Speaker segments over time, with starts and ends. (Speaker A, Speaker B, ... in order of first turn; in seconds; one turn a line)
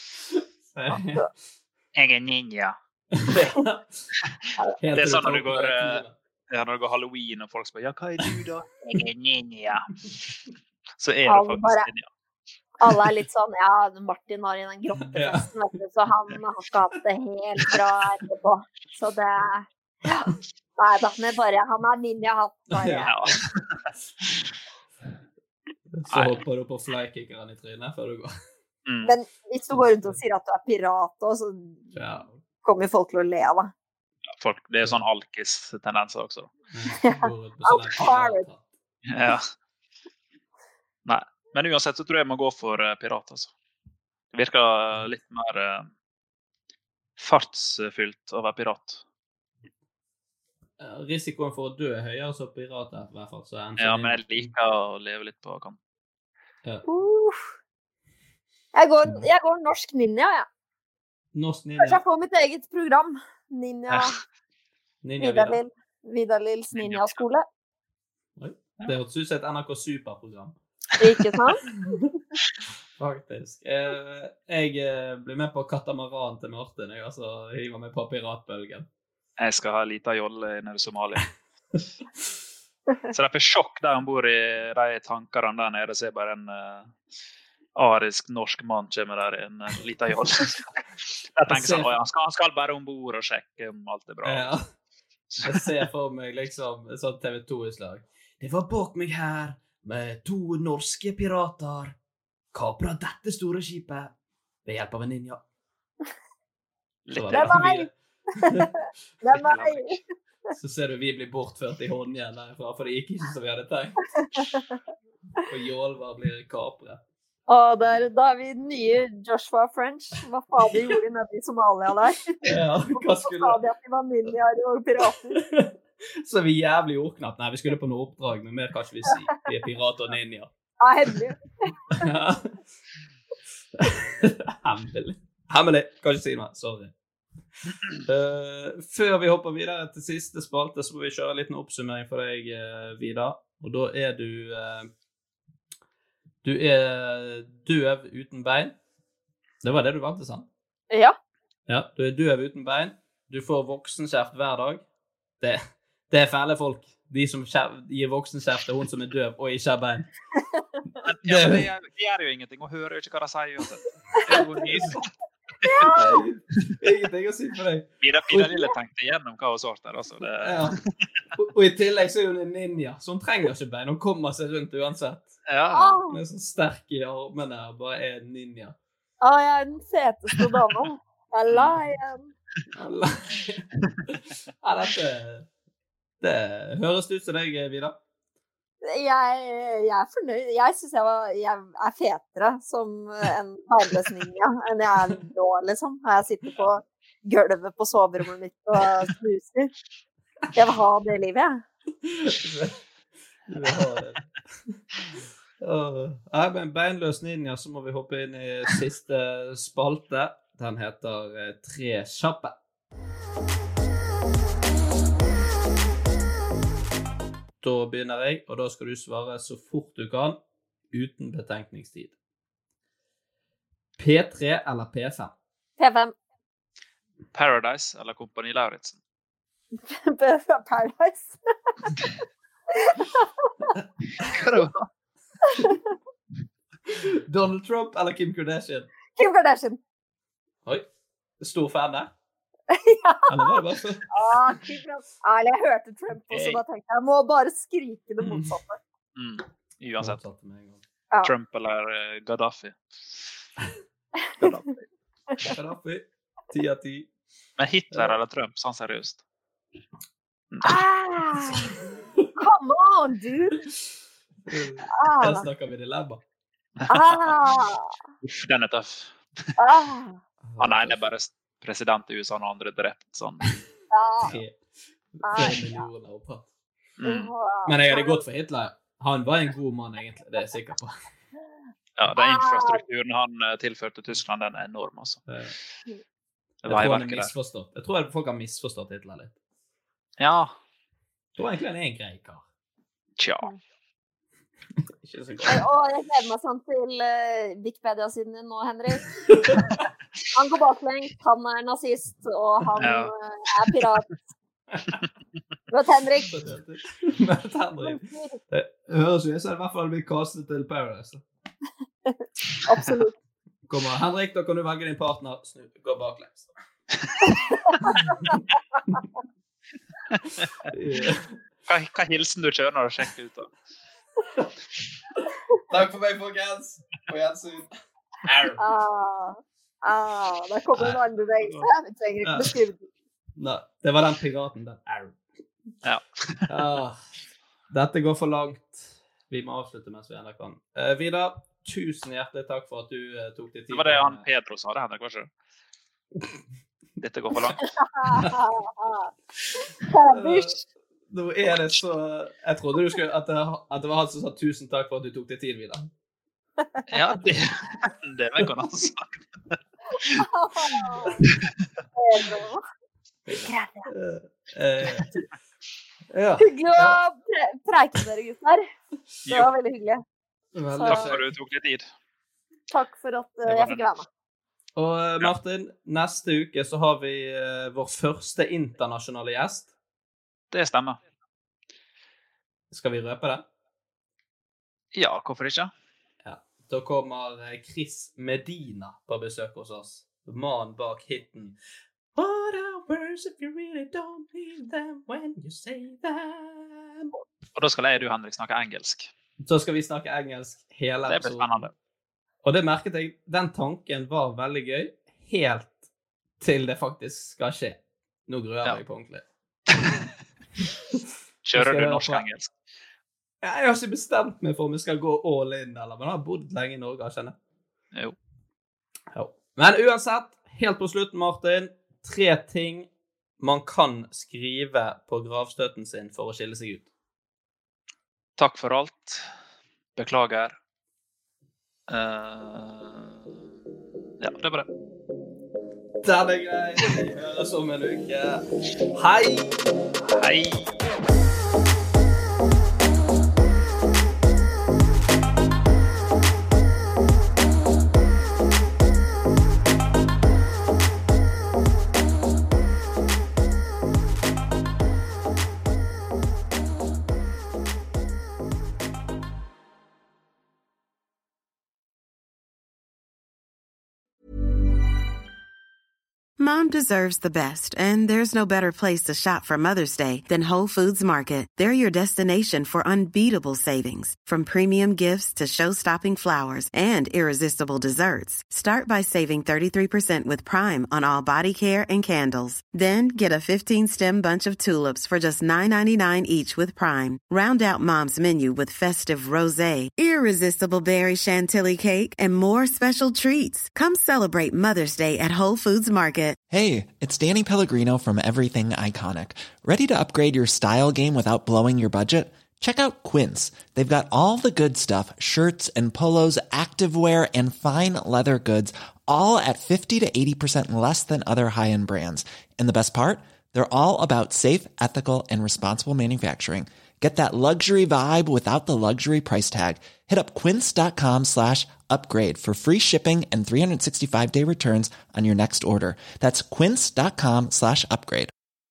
Speaker A: 0.3-1.3
Speaker B: 1.9-2.7
Speaker A: 3.1-4.1
Speaker A: 4.8-6.1
Speaker B: 4.9-9.9
Speaker B: 11.0-12.1
Speaker C: 11.2-11.9
Speaker C: 12.8-23.1
Speaker A: 15.0-15.5
Speaker A: 22.7-23.4
Speaker B: 23.1-23.8
Speaker A: 25.9-28.3
Speaker B: 26.1-26.4
Speaker B: 28.9-29.1
Speaker C: 29.0-31.9
Speaker A: 29.7-30.2
Speaker A: 31.9-32.4
Speaker C: 32.6-33.7
Speaker B: 34.4-36.5
Speaker A: 36.7-38.7
Speaker C: 37.0-38.5
Speaker B: 39.1-39.5
Speaker B: 41.0-43.5
Speaker B: 44.3-45.9
Speaker B: 47.2-49.0
Speaker A: 50.8-54.5
Speaker B: 53.8-55.8
Speaker C: 56.9-57.5
Speaker C: 58.7-60.5
Speaker A: 61.3-62.0
Speaker C: 61.8-64.2
Speaker B: 63.9-64.1
Speaker A: 65.0-65.6
Speaker C: 65.2-67.5
Speaker B: 66.8-67.2
Speaker A: 68.4-70.5
Speaker C: 71.0-71.6
Speaker A: 71.7-72.0
Speaker A: 73.0-78.9
Speaker B: 79.4-81.3
Speaker B: 83.1-86.9
Speaker B: 87.7-90.8
Speaker B: 91.3-94.5
Speaker A: 91.5-91.9
Speaker A: 94.2-94.6
Speaker B: 95.3-95.8
Speaker A: 95.4-101.9
Speaker A: 102.5-104.1
Speaker A: 104.6-105.4
Speaker B: 107.0-107.7
Speaker A: 107.1-107.9
Speaker C: 107.3-108.7
Speaker A: 108.4-108.7
Speaker C: 109.2-110.0
Speaker B: 109.3-110.0
Speaker A: 110.5-114.0
Speaker A: 115.4-117.0
Speaker C: 117.5-125.5
Speaker A: 122.4-123.6
Speaker A: 125.3-130.5
Speaker C: 130.8-132.1
Speaker A: 131.9-132.6
Speaker A: 133.8-136.9
Speaker A: 138.0-144.9
Speaker A: 146.4-148.8
Speaker A: 149.6-150.5
Speaker C: 150.9-151.2
Speaker A: 151.7-154.8
Speaker A: 155.4-160.1
Speaker B: 161.0-165.0
Speaker A: 161.2-161.7
Speaker A: 164.3-165.0
Speaker C: 165.6-166.2
Speaker A: 165.9-167.9
Speaker B: 168.0-170.8
Speaker C: 168.3-168.7
Speaker A: 170.4-170.8
Speaker A: 171.3-175.3
Speaker B: 175.5-176.0
Speaker C: 175.7-176.2
Speaker A: 176.1-178.8
Speaker C: 179.2-182.3
Speaker A: 182.8-185.5
Speaker A: 186.2-188.0
Speaker C: 188.8-199.7
Speaker C: 200.5-201.6
Speaker A: 202.0-202.8
Speaker A: 203.5-204.7
Speaker A: 205.6-212.6
Speaker A: 217.6-220.4
Speaker A: 220.9-222.1
Speaker A: 224.0-225.3
Speaker C: 225.8-226.1
Speaker B: 227.3-229.0
Speaker C: 229.9-231.4
Speaker C: 232.8-233.7
Speaker B: 234.2-234.9
Speaker C: 235.5-235.8
Speaker A: 236.9-238.9
Speaker C: 239.2-239.8
Speaker A: 241.4-242.1
Speaker C: 242.7-248.8
Speaker A: 243.3-244.1
Speaker B: 246.3-246.6
Speaker A: 248.2-248.5
Speaker B: 249.2-250.2
Speaker A: 250.0-250.8
Speaker B: 251.2-253.1
Speaker B: 254.4-254.7
Speaker A: 255.4-257.1
Speaker B: 257.6-259.2
Speaker B: 260.5-260.8
Speaker C: 260.6-261.8
Speaker A: 262.0-262.3
Speaker C: 262.4-263.6
Speaker A: 264.4-266.2
Speaker C: 264.9-265.5
Speaker C: 266.9-267.9
Speaker B: 268.2-269.1
Speaker C: 269.6-270.2
Speaker A: 270.4-271.0
Speaker B: 270.6-273.6
Speaker C: 273.9-274.3
Speaker A: 274.2-274.6
Speaker A: 275.1-276.5
Speaker C: 275.2-275.9
Speaker B: 277.0-277.3
Speaker C: 277.0-278.2
Speaker A: 277.6-280.9
Speaker B: 282.0-285.2
Speaker C: 282.1-282.8
Speaker A: 285.3-285.5
Speaker B: 286.6-287.3
Speaker A: 286.6-289.3
Speaker B: 290.2-290.5
Speaker A: 291.4-292.4
Speaker B: 293.2-293.5
Speaker A: 294.8-295.6
Speaker C: 295.5-299.6
Speaker A: 299.3-299.8
Speaker C: 300.3-304.1
Speaker B: 302.8-303.1
Speaker A: 304.7-305.0
Speaker C: 305.7-306.3
Speaker A: 306.3-311.2
Speaker C: 307.8-308.4
Speaker C: 312.1-313.1
Speaker A: 313.7-316.5
Speaker C: 317.7-318.1
Speaker A: 318.1-318.4
Speaker A: 320.7-321.4
Speaker B: 321.7-323.5
Speaker A: 325.7-327.7
Speaker A: 328.2-328.6
Speaker C: 328.6-332.9
Speaker A: 332.2-332.6
Speaker A: 333.4-335.2
Speaker B: 335.8-336.5
Speaker A: 336.5-337.0
Speaker A: 337.7-344.2
Speaker B: 343.7-345.3
Speaker B: 347.0-347.7
Speaker C: 347.8-349.1
Speaker C: 349.8-350.5
Speaker A: 350.1-355.9
Speaker B: 356.9-360.2
Speaker C: 360.1-361.2
Speaker C: 361.9-362.6
Speaker A: 363.3-365.1
Speaker C: 363.4-363.9
Speaker A: 366.1-367.0
Speaker C: 366.4-368.6
Speaker B: 369.2-369.5
Speaker C: 369.2-370.0
Speaker A: 370.5-371.3
Speaker C: 370.7-371.1
Speaker B: 370.9-371.9
Speaker C: 372.7-374.1
Speaker B: 373.4-373.9
Speaker A: 374.8-379.7
Speaker B: 380.5-381.0
Speaker A: 382.7-383.4
Speaker B: 384.9-385.7
Speaker A: 386.2-391.6
Speaker A: 392.1-397.1
Speaker B: 397.5-399.1
Speaker A: 399.4-401.7
Speaker B: 401.1-401.7
Speaker A: 402.4-405.9
Speaker A: 406.4-409.2
Speaker B: 411.4-412.5
Speaker A: 411.5-412.2
Speaker A: 413.4-417.4
Speaker A: 419.1-426.9
Speaker B: 428.4-429.2
Speaker B: 429.9-430.6
Speaker B: 431.9-433.2
Speaker B: 434.2-434.7
Speaker A: 436.0-439.7
Speaker B: 440.1-440.9
Speaker D: 466.4-496.4
Speaker E: 496.5-528.3